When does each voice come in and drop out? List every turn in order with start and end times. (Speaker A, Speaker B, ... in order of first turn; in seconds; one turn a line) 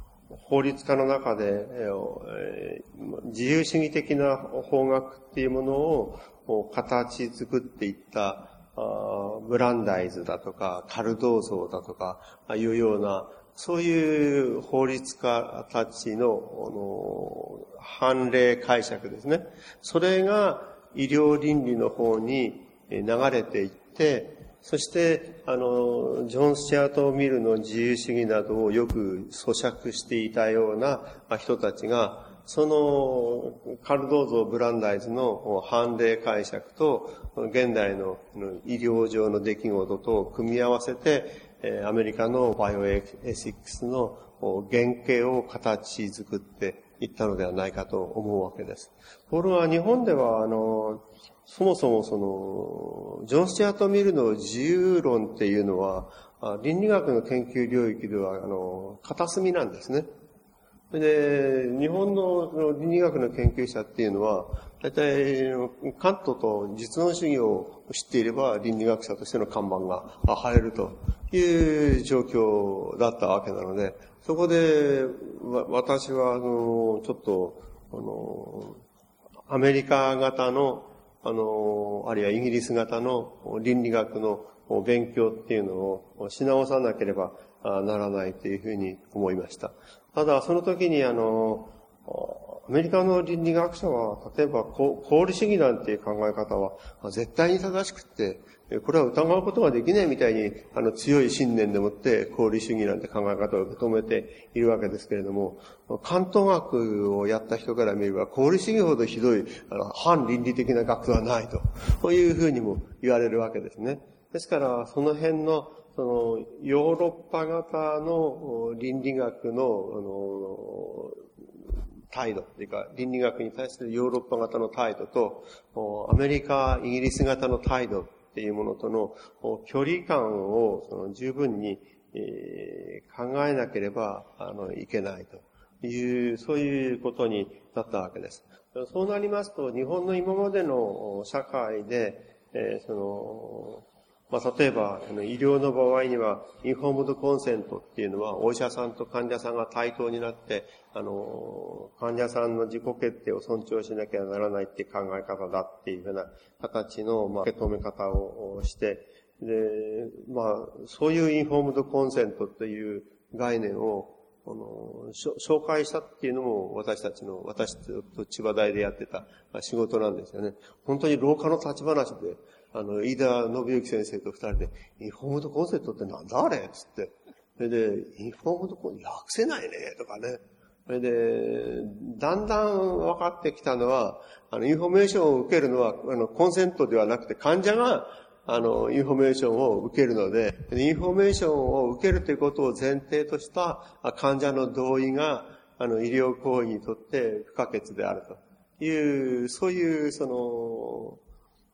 Speaker A: 0.3-60.1
Speaker A: 60.9-78.8
Speaker A: 79.5-201.2